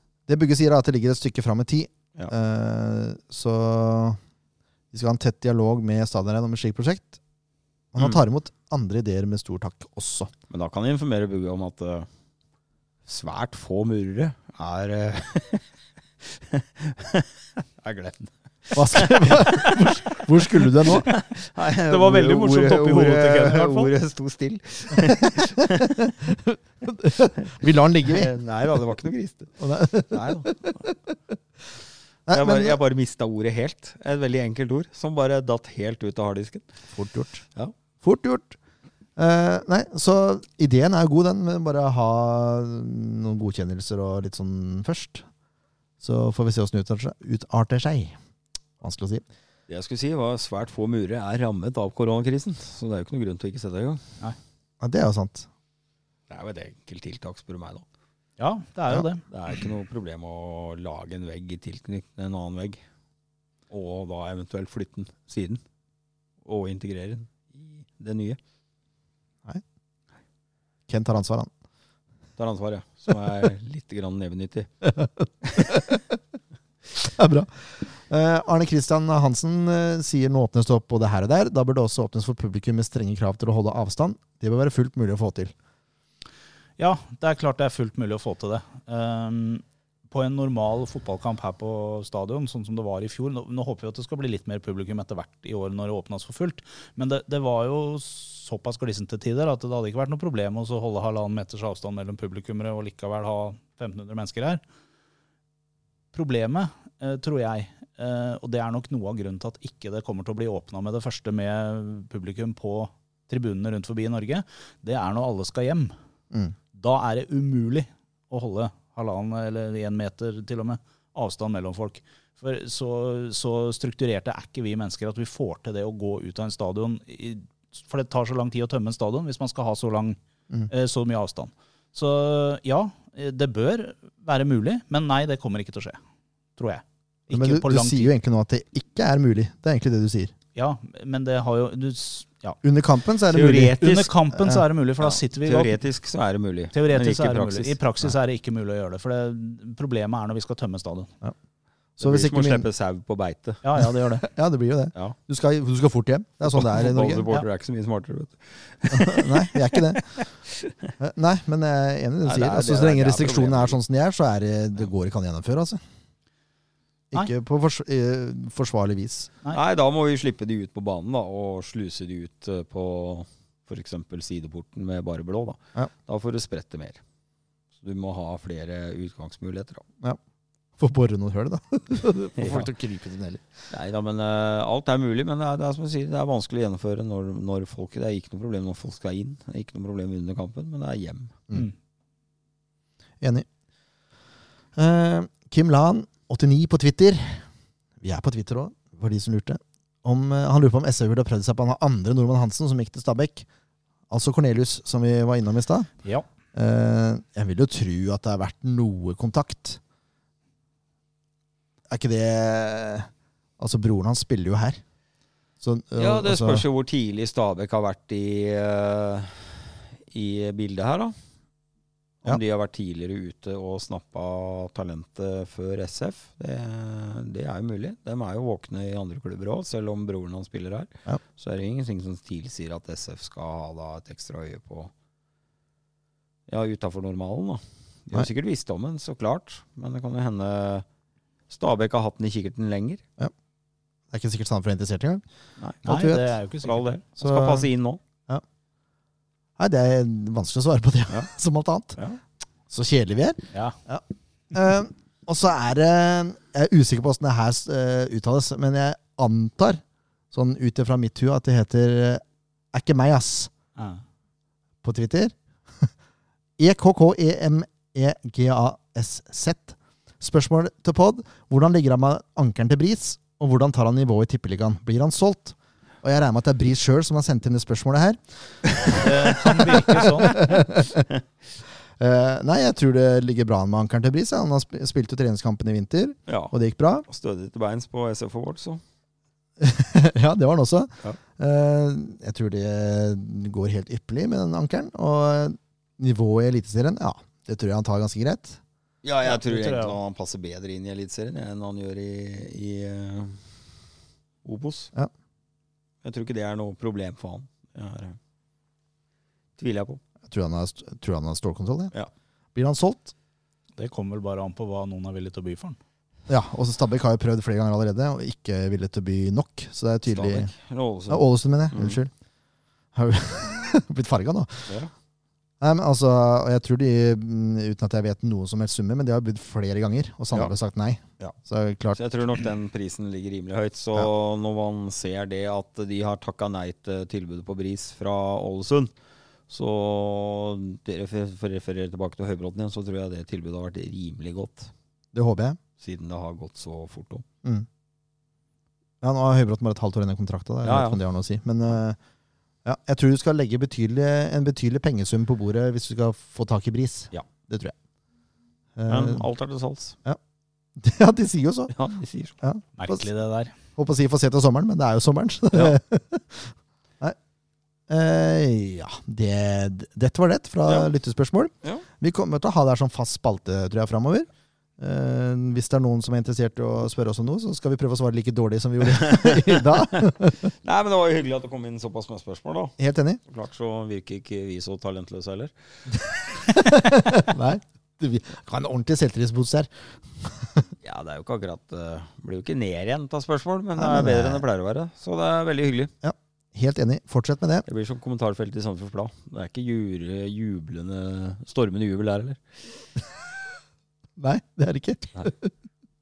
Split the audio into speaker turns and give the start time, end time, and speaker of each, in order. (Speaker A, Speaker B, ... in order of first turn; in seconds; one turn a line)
Speaker A: 0.3-4.2
Speaker A: 4.9-7.2
Speaker A: 7.9-10.3
Speaker B: 10.5-12.1
Speaker B: 13.1-15.6
Speaker B: 16.2-17.3
Speaker B: 17.8-26.1
Speaker A: 18.8-21.1
Speaker C: 21.9-23.9
Speaker A: 25.6-28.3
Speaker B: 28.0-29.6
Speaker A: 29.6-31.1
Speaker B: 30.1-30.7
Speaker A: 32.3-32.8
Speaker B: 32.3-36.6
Speaker A: 36.9-37.5
Speaker A: 38.0-38.6
Speaker A: 39.2-45.3
Speaker A: 46.0-48.1
Speaker A: 48.8-49.2
Speaker B: 49.7-54.0
Speaker A: 54.8-55.5
Speaker B: 56.3-57.8
Speaker C: 58.4-59.2
Speaker B: 59.3-62.8
Speaker B: 63.7-65.6
Speaker B: 66.5-68.4
Speaker A: 70.9-71.5
Speaker B: 72.4-74.7
Speaker A: 74.8-76.0
Speaker B: 75.4-75.8
Speaker A: 77.0-85.5
Speaker C: 86.8-104.6
Speaker C: 106.1-115.9
Speaker C: 116.8-130.2
Speaker C: 130.7-136.0
Speaker C: 136.6-138.1
Speaker A: 137.3-140.3
Speaker C: 140.6-142.6
Speaker A: 142.6-144.6
Speaker B: 143.3-144.1
Speaker C: 143.8-145.8
Speaker B: 145.0-147.8
Speaker C: 146.7-151.1
Speaker A: 152.0-152.7
Speaker B: 152.0-153.6
Speaker C: 153.6-154.3
Speaker A: 154.2-157.3
Speaker B: 156.4-160.9
Speaker A: 158.9-160.1
Speaker A: 161.0-165.8
Speaker B: 162.2-163.8
Speaker A: 167.1-169.3
Speaker B: 169.5-177.0
Speaker B: 177.8-179.8
Speaker A: 180.8-183.4
Speaker B: 182.4-182.7
Speaker B: 183.7-191.4
Speaker A: 193.2-193.5
Speaker A: 194.8-197.5
Speaker A: 198.0-203.5
Speaker A: 204.1-205.9
Speaker A: 206.5-209.8
Speaker A: 211.9-213.1
Speaker A: 213.6-214.8
Speaker A: 215.6-216.7
Speaker B: 216.0-221.2
Speaker B: 222.2-234.9
Speaker B: 236.5-240.8
Speaker B: 241.5-243.0
Speaker A: 244.1-245.2
Speaker A: 245.8-246.3
Speaker C: 245.8-247.0
Speaker B: 246.6-248.0
Speaker A: 247.2-247.7
Speaker A: 249.6-252.0
Speaker A: 252.7-262.2
Speaker A: 262.7-263.5
Speaker A: 264.8-265.9
Speaker A: 266.6-278.2
Speaker A: 278.9-281.1
Speaker C: 278.9-280.4
Speaker A: 282.0-287.1
Speaker B: 286.3-286.5
Speaker B: 287.1-288.8
Speaker A: 289.6-298.6
Speaker B: 299.0-303.4
Speaker C: 299.2-300.0
Speaker B: 304.4-304.9
Speaker B: 306.0-308.2
Speaker B: 309.6-310.0
Speaker A: 310.2-311.9
Speaker A: 312.6-313.1
Speaker C: 313.8-315.8
Speaker A: 316.3-320.5
Speaker B: 320.1-322.0
Speaker A: 321.1-322.1
Speaker A: 322.9-324.8
Speaker A: 325.6-332.0
Speaker B: 331.9-338.9
Speaker B: 339.5-344.7
Speaker A: 345.1-345.6
Speaker B: 345.8-347.2
Speaker A: 349.0-352.0
Speaker B: 350.6-351.0
Speaker A: 352.6-357.8
Speaker A: 358.8-359.2
Speaker B: 358.9-360.0
Speaker A: 360.8-361.7
Speaker B: 361.7-362.3
Speaker A: 362.4-363.1
Speaker C: 362.8-363.6
Speaker A: 363.8-367.2
Speaker A: 367.9-374.3
Speaker A: 374.8-380.5
Speaker B: 378.9-382.8
Speaker A: 382.8-383.2
Speaker B: 383.3-386.6
Speaker A: 386.5-390.7
Speaker B: 390.8-395.9
Speaker A: 393.8-394.4
Speaker A: 396.0-397.6
Speaker B: 397.7-402.4
Speaker A: 404.2-405.5